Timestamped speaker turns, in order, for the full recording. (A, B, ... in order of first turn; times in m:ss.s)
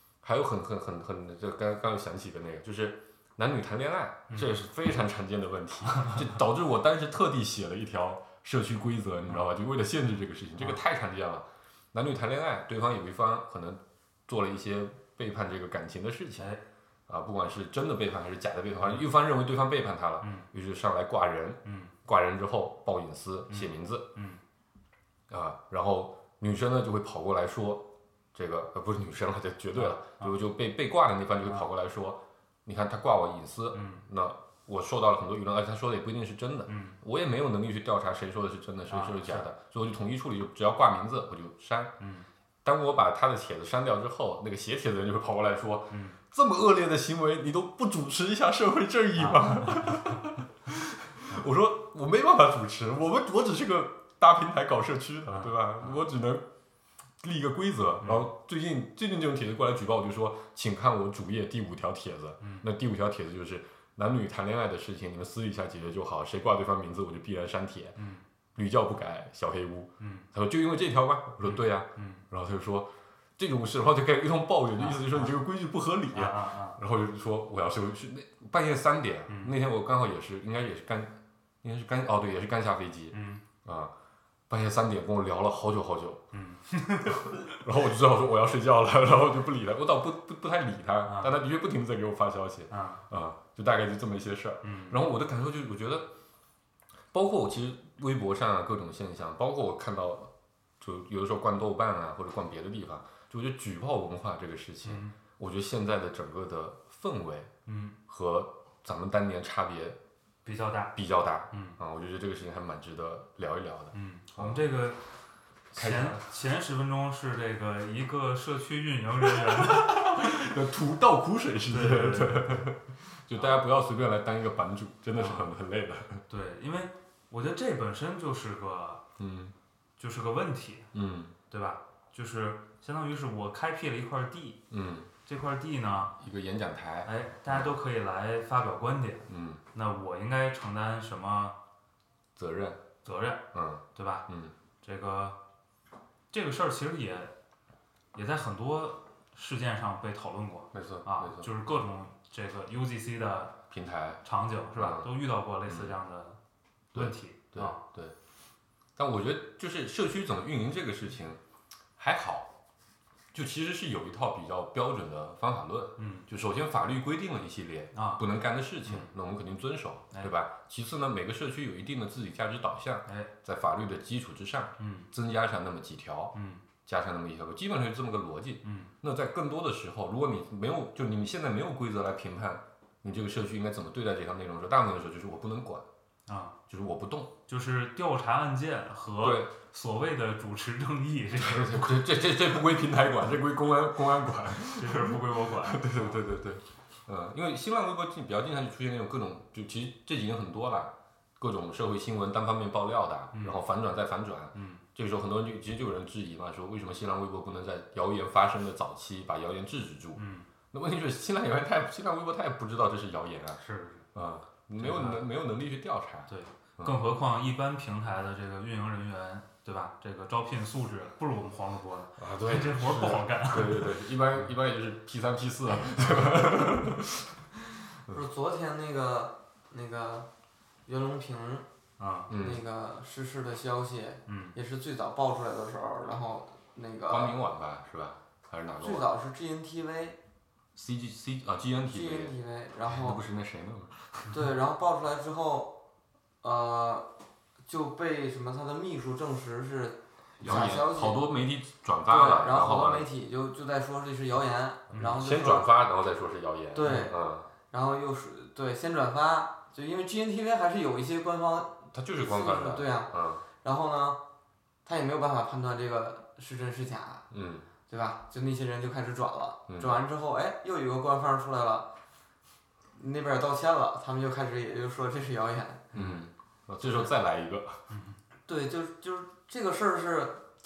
0:00.2-0:16.5 A
0:04.3-0:04.7 B
0:05.9-0:06.3 B
0:17.1-0:24.1 A
0:18.8-0:19.0 B
0:20.2-0:20.5 B
0:21.6-0:21.9 B
0:23.5-0:24.4 B
0:25.3-0:41.9 A
0:29.7-0:30.4 B
0:33.7-0:34.0 B
0:36.7-0:37.0 B
0:38.9-0:39.5 B
0:42.0-0:42.3 B
0:42.6-0:56.5 A
0:45.9-0:46.2 B
0:49.2-0:50.2 B
0:55.3-0:56.0 B
0:57.2-1:08.0 A
0:58.0-0:58.3 B
1:02.4-1:02.7 B
1:08.0-1:08.2 B
1:08.6-1:23.9 A
1:10.0-1:10.3 B
1:11.4-1:12.2 B
1:14.8-1:15.3 B
1:16.1-1:16.8 B
1:19.3-1:19.6 B
1:23.1-1:23.4 B
1:24.5-1:26.3 A
1:26.3-1:27.4 B
1:27.1-1:36.1 A
1:31.1-1:31.4 B
1:32.7-1:33.0 B
1:34.6-1:35.1 B
1:37.1-1:47.5 A
1:44.8-1:45.2 B
1:47.7-1:48.0 B
1:48.1-1:50.0 A
1:50.4-1:51.0 B
1:51.0-1:54.6 A
1:51.5-1:51.8 B
1:53.9-1:55.0 B
1:55.7-2:00.4 B
1:55.7-1:56.2 A
1:59.3-2:06.2 A
2:01.7-2:02.7 B
2:05.2-2:05.5 B
2:06.3-2:09.0 B
2:09.2-2:09.5 A
2:10.0-2:10.9 B
2:10.9-2:11.4 A
2:11.5-2:14.6 B
2:14.7-2:15.1 A
2:15.3-2:16.1 B
2:16.2-2:17.8 A
2:17.0-2:21.6 B
2:19.3-2:19.6 A
2:22.4-2:22.8 A
2:23.0-2:24.3 B
2:23.5-2:24.5 A
2:24.8-2:25.4 B
2:26.3-2:27.3 B
2:28.1-2:33.6 B
2:30.7-2:31.5 A
2:33.7-2:34.2 A
2:34.2-2:36.4 B
2:34.8-2:35.1 A
2:35.7-2:36.0 A
2:36.9-2:37.8 B
2:36.9-2:38.2 A
2:39.0-2:41.4 A
2:42.0-2:42.5 A
2:43.3-2:56.3 A
2:46.0-2:46.3 B
2:47.9-2:48.2 B
2:48.8-2:49.1 B
2:54.8-2:55.1 B
2:56.3-2:56.6 B
2:56.8-3:05.9 A
2:58.6-2:58.9 B
3:06.3-3:06.6 B
3:06.7-3:07.4 A
3:07.5-3:11.9 B
3:09.2-3:09.5 A
3:11.4-3:33.6 A
3:14.7-3:16.2 B
3:23.3-3:23.6 B
3:24.5-3:24.8 B
3:30.2-3:30.5 B
3:33.6-3:34.1 B
3:34.1-3:37.0 A
3:34.8-3:35.2 B
3:36.3-3:44.1 B
3:42.2-3:47.4 A
3:46.1-3:46.7 B
3:48.1-3:50.3 C
3:50.9-3:51.7 C
3:52.0-3:52.3 B
3:52.3-3:52.6 A
3:52.3-3:57.4 C
3:54.3-3:54.6 B
3:57.1-3:59.1 A
3:58.8-4:00.2 C
4:00.8-4:02.4 A
4:01.9-4:03.2 C
4:02.9-4:04.4 A
4:04.3-4:05.8 C
4:06.4-4:07.1 C
4:07.7-4:11.2 C
4:10.4-4:13.1 A
4:12.1-4:15.7 C
4:14.9-4:15.2 B
4:15.0-4:17.5 A
4:16.7-4:17.2 C
4:17.7-4:24.2 C
4:21.9-4:23.4 A
4:24.8-4:27.2 C
4:27.3-4:27.7 A
4:27.9-4:31.9 C
4:29.7-4:30.0 A
4:33.0-4:35.9 C
4:35.9-4:37.8 A
4:35.9-4:36.2 B
4:37.9-4:38.2 B
4:38.5-4:40.4 C